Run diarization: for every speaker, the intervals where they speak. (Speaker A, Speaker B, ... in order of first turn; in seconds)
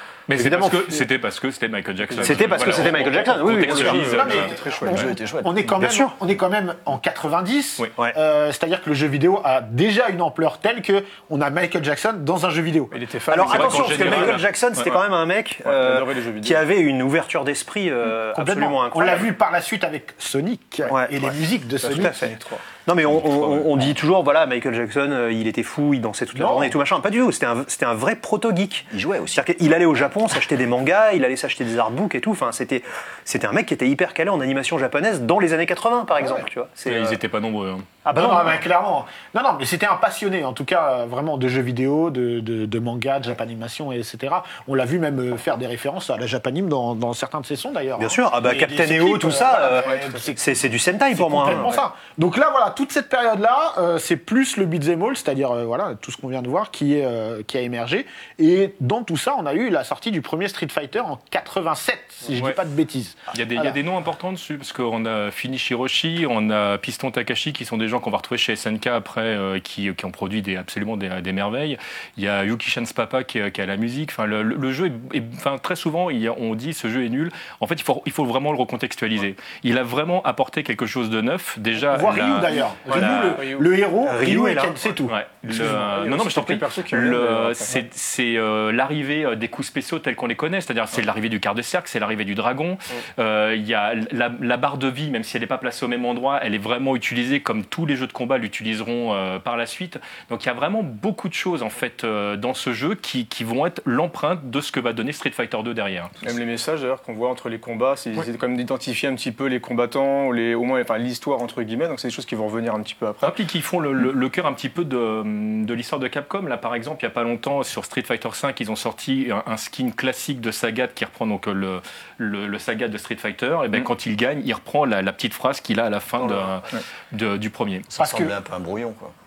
Speaker A: 0.3-4.5, 13.4-14.8, 23.1-23.8, 36.9-37.9, 63.3-82.5, 85.1-106.1, 113.2-127.9
Speaker B: 0.3-1.0, 2.2-4.2, 5.8-6.1, 13.3-19.3, 20.9-21.3, 21.9-37.2, 38.0-38.6, 48.0-51.7, 82.9-83.4, 84.0-84.8, 126.2-126.5
Speaker C: 0.4-1.0, 4.0-13.0, 18.3-22.3, 26.3-26.8, 38.1-50.5, 51.1-63.8, 81.8-85.1, 128.0-128.3
Speaker D: 2.1-5.0, 12.9-14.4, 15.6-16.6, 21.8-22.6, 82.9-83.6, 85.5-87.8, 106.2-113.3
Speaker E: 4.8-5.5, 28.9-29.5, 127.9-129.1